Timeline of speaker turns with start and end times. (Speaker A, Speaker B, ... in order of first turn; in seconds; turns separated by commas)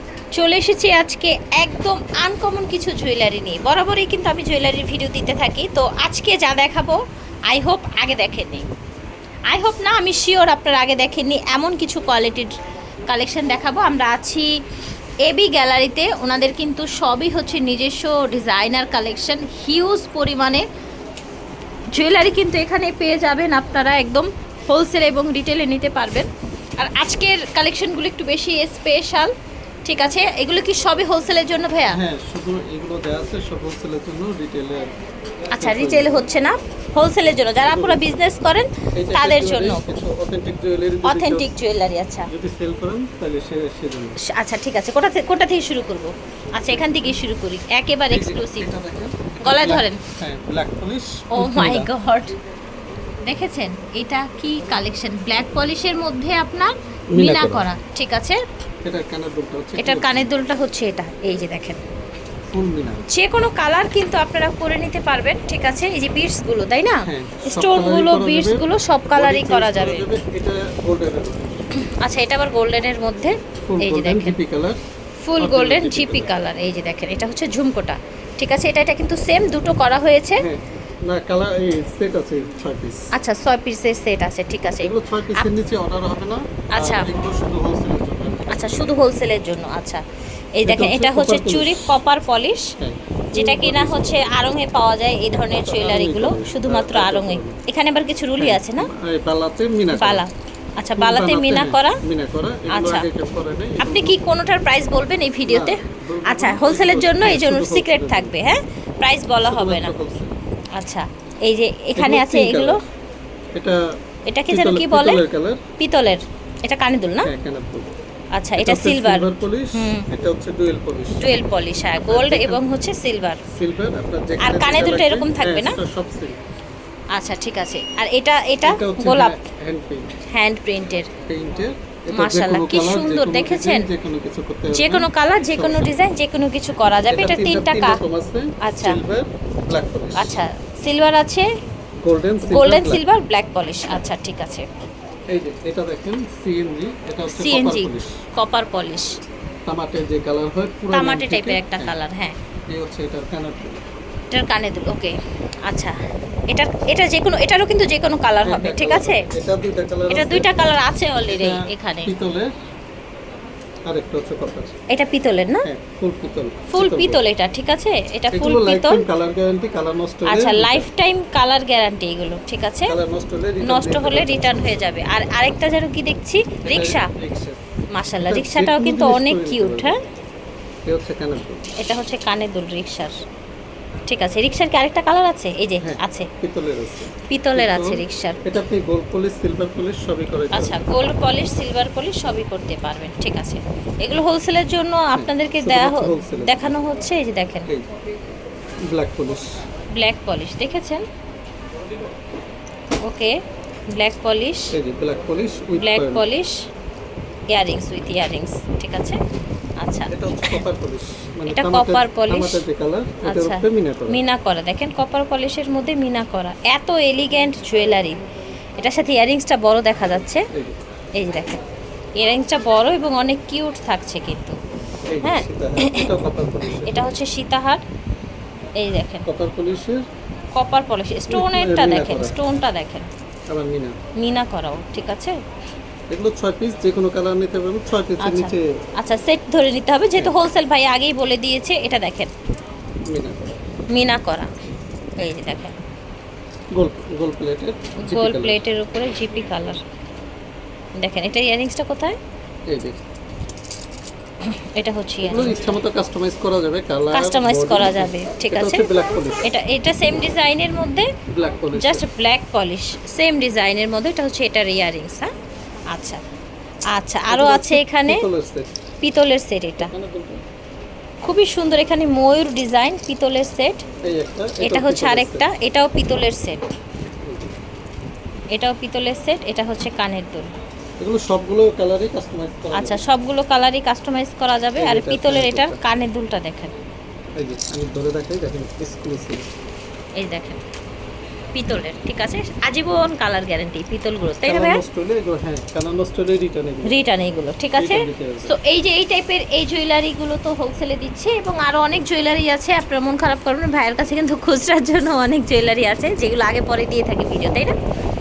Speaker A: 0.3-8.7, Speaker A: 9.5-12.5, Speaker A: 13.1-14.5, Speaker A: 15.2-20.6, Speaker A: 21.9-29.3, Speaker A: 29.8-32.0, Speaker B: 31.9-34.9, Speaker A: 35.5-39.9, Speaker B: 35.5-36.2, Speaker B: 37.6-38.1, Speaker B: 38.9-41.5, Speaker A: 41.0-42.3, Speaker B: 42.3-44.2, Speaker A: 44.2-48.7, Speaker B: 46.7-47.0, Speaker B: 48.1-51.9, Speaker A: 49.4-50.0, Speaker A: 51.3-52.4, Speaker A: 53.2-58.4, Speaker B: 57.1-57.7, Speaker B: 58.8-60.3, Speaker A: 59.8-61.8, Speaker B: 62.5-63.0, Speaker A: 63.1-70.1, Speaker B: 67.0-71.6, Speaker A: 71.8-74.4, Speaker B: 73.7-74.8, Speaker A: 75.2-80.5, Speaker B: 75.4-76.3, Speaker B: 80.4-83.1, Speaker A: 83.1-85.5, Speaker B: 84.8-89.0, Speaker A: 86.7-87.1, Speaker A: 88.5-90.0, Speaker A: 90.5-92.7, Speaker B: 90.6-92.0, Speaker B: 92.8-94.3, Speaker A: 93.3-98.9, Speaker B: 95.6-97.6, Speaker B: 98.4-100.2, Speaker A: 99.9-102.0, Speaker B: 101.0-104.3, Speaker A: 102.7-103.1, Speaker A: 103.8-109.9, Speaker B: 105.5-108.3, Speaker B: 109.4-110.3, Speaker A: 110.8-112.8, Speaker B: 112.0-112.8, Speaker B: 113.5-113.8, Speaker A: 114.3-115.2, Speaker B: 114.5-115.6, Speaker A: 115.8-117.3, Speaker B: 117.2-117.9, Speaker A: 118.3-120.1, Speaker B: 118.6-121.2, Speaker A: 121.2-123.4, Speaker B: 122.1-122.6, Speaker B: 123.5-126.4, Speaker A: 124.4-125.8, Speaker A: 127.1-129.3, Speaker B: 128.6-130.1, Speaker A: 130.3-131.1, Speaker B: 131.3-136.0, Speaker A: 132.1-133.9, Speaker A: 134.7-138.0, Speaker B: 137.1-140.4, Speaker A: 138.6-139.0, Speaker A: 140.1-141.5, Speaker B: 142.0-143.0, Speaker A: 142.4-144.7, Speaker B: 145.3-148.2, Speaker A: 147.3-149.2, Speaker B: 149.7-151.9, Speaker A: 150.9-152.4, Speaker B: 152.7-153.8, Speaker A: 154.3-155.1, Speaker A: 155.7-155.9, Speaker A: 156.5-159.3, Speaker B: 158.4-160.6, Speaker A: 160.1-162.1, Speaker B: 161.2-162.5, Speaker B: 163.8-164.7, Speaker A: 164.9-165.7, Speaker B: 165.6-167.2, Speaker A: 166.7-169.0, Speaker B: 168.3-170.9, Speaker A: 170.2-172.9, Speaker B: 172.8-174.8, Speaker A: 173.6-177.1, Speaker B: 176.7-177.6, Speaker A: 177.9-180.0, Speaker B: 178.2-179.9, Speaker B: 180.8-181.7, Speaker A: 181.8-183.1, Speaker A: 184.1-186.3, Speaker B: 185.8-190.9, Speaker A: 187.3-188.4, Speaker A: 190.5-197.7, Speaker B: 195.1-196.8, Speaker B: 198.9-199.5, Speaker A: 199.9-201.0, Speaker A: 203.0-203.3, Speaker A: 203.9-204.7, Speaker B: 204.7-206.2, Speaker A: 205.8-206.6, Speaker A: 207.5-209.2, Speaker A: 209.8-210.6, Speaker B: 210.1-214.2, Speaker A: 211.5-212.6, Speaker A: 213.2-218.2, Speaker A: 218.8-220.5, Speaker B: 220.5-220.8, Speaker A: 221.2-221.6, Speaker A: 222.2-224.6, Speaker B: 225.1-227.1, Speaker A: 225.2-226.1, Speaker A: 226.8-227.8, Speaker A: 228.8-229.3, Speaker B: 229.2-230.0, Speaker A: 230.6-233.1, Speaker B: 231.3-232.3, Speaker B: 233.5-233.9, Speaker A: 234.2-235.4, Speaker B: 236.1-238.7, Speaker A: 238.2-242.3, Speaker B: 243.1-243.6, Speaker A: 243.9-244.5, Speaker A: 245.2-245.8, Speaker B: 246.7-248.6, Speaker A: 248.0-249.8, Speaker A: 251.0-252.2, Speaker B: 252.7-253.0, Speaker A: 254.4-255.7, Speaker B: 255.2-259.5, Speaker A: 257.1-258.9, Speaker A: 259.4-261.1, Speaker B: 261.3-262.0, Speaker A: 261.7-265.3, Speaker A: 265.9-266.2, Speaker A: 266.9-268.2, Speaker B: 267.3-268.7, Speaker A: 269.0-269.9, Speaker B: 269.8-270.4, Speaker A: 271.2-273.8, Speaker B: 274.0-275.5, Speaker A: 274.6-276.6, Speaker B: 277.2-277.5, Speaker A: 278.5-280.5, Speaker B: 281.0-283.1, Speaker A: 282.7-286.8, Speaker B: 284.8-285.8, Speaker B: 287.4-289.4, Speaker A: 290.2-290.6, Speaker A: 291.5-294.8, Speaker B: 294.4-297.0, Speaker A: 296.8-307.8, Speaker B: 297.8-298.6